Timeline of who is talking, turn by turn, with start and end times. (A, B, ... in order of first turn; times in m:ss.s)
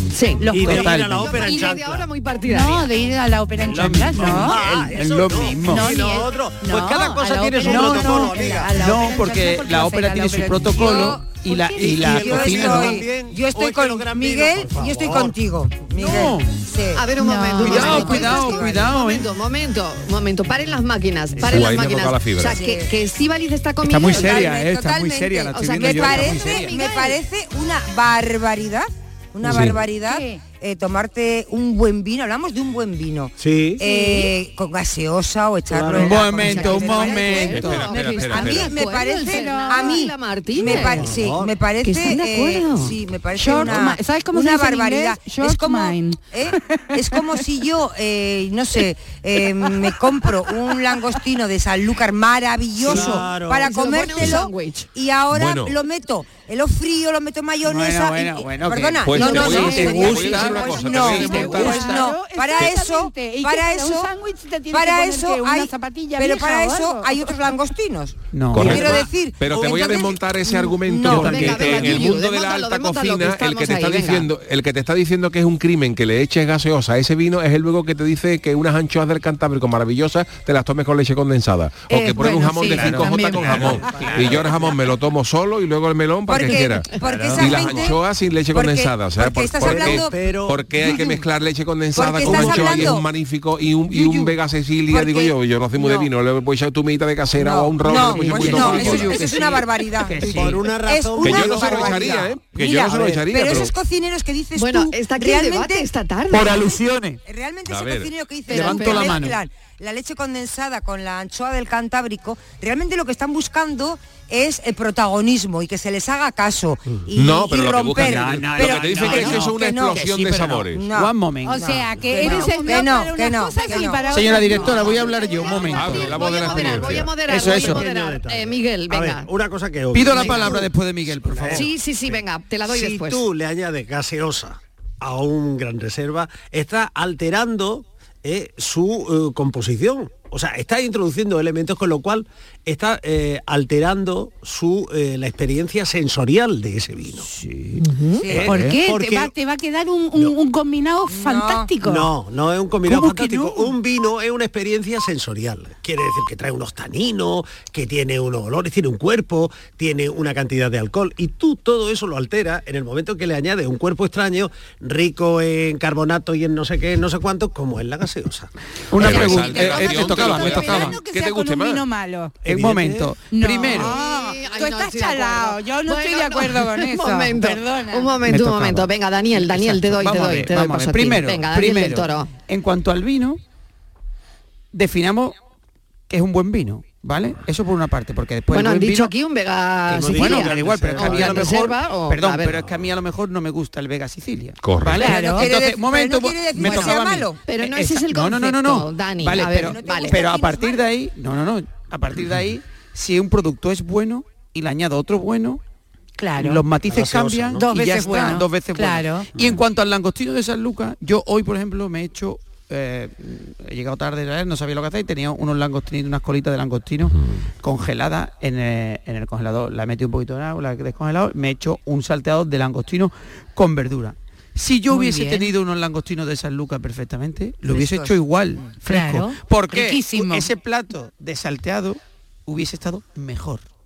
0:00.1-0:02.9 A
0:00.4-0:00.9 B
0:00.5-0:02.1 C
0:00.6-0:01.4 D
0:02.5-0:04.6 B
0:03.6-0:06.0 D
0:04.2-0:08.8 C
0:05.6-0:11.0 B
0:07.6-0:13.0 D
0:10.7-0:18.9 E
0:11.8-0:15.4 C
0:16.0-0:16.5 D
0:17.0-0:24.5 A
0:17.2-0:18.3 B
0:17.6-0:19.3 D
0:21.4-0:21.7 D
0:21.4-0:22.6 F
0:22.4-0:22.9 E
0:23.8-0:26.8 D
0:24.0-1:04.1 E
0:25.5-0:26.9 A
0:29.4-0:29.8 F
0:30.0-0:30.4 B
0:33.4-0:33.8 C
0:33.9-0:34.3 A
0:35.7-0:36.8 C
0:35.9-0:38.0 D
0:36.3-0:41.1 A
0:37.4-0:38.8 F
0:39.2-0:40.0 B
0:40.6-0:41.5 C
0:41.8-0:43.0 A
0:43.4-0:47.2 B
0:52.8-0:54.1 C
0:52.9-0:54.9 A
0:55.3-0:55.8 F
0:57.6-1:02.0 D
0:59.0-1:01.9 F
0:59.4-0:59.8 B
1:01.2-1:07.3 B
1:04.7-1:12.0 E
1:08.3-1:09.0 D
1:08.5-1:39.3 F
1:11.1-1:11.7 D
1:11.1-1:14.3 A
1:21.9-1:23.9 B
1:22.2-1:24.8 D
1:26.3-1:30.1 E
1:27.1-1:27.9 D
1:29.5-1:31.1 C
1:31.9-1:33.1 E
1:32.2-1:32.8 C
1:33.9-1:34.3 E
1:34.9-1:36.1 E
1:37.4-1:45.9 E
1:37.9-1:40.7 D
1:40.2-1:42.4 C
1:41.2-1:43.7 F
1:44.6-1:46.8 A
1:46.3-1:47.2 D
1:47.2-2:04.9 E
1:47.7-1:48.1 F
1:48.5-1:49.4 D
1:48.5-1:49.2 A
1:57.2-2:00.8 F
1:57.9-2:02.5 D
2:01.5-2:05.8 B
2:04.1-2:07.8 D
2:05.0-2:09.3 A
2:05.7-2:07.2 F
2:07.3-2:27.3 C
2:09.9-2:11.7 D
2:10.1-2:10.7 A
2:11.5-2:13.2 A
2:27.2-2:27.8 D
2:27.8-2:28.2 A
2:28.2-2:28.5 E
2:28.3-2:29.3 C
2:28.3-2:28.8 D
2:28.3-2:32.1 B
2:31.1-2:31.7 E
2:31.8-2:48.5 C
2:32.9-2:33.7 B
2:48.9-2:51.0 D
2:49.0-2:51.8 F
2:49.0-2:52.5 B
2:52.4-2:54.0 D
2:52.5-2:53.1 C
2:53.3-2:58.2 B
2:53.8-3:02.3 A
2:58.2-3:03.4 D
3:04.7-3:05.4 D
3:06.1-3:09.1 D
3:08.5-3:12.6 A
3:09.9-3:11.6 C
3:10.0-3:25.6 D
3:14.6-3:15.0 F
3:14.9-3:17.4 E
3:15.0-3:15.5 B
3:17.5-3:20.2 A
3:19.3-3:20.9 E
3:26.2-3:26.6 B
3:26.4-3:53.6 D
3:26.8-3:27.7 C
3:27.6-3:29.6 B
3:44.9-3:45.5 B
3:47.7-3:48.7 E
3:48.8-3:50.5 B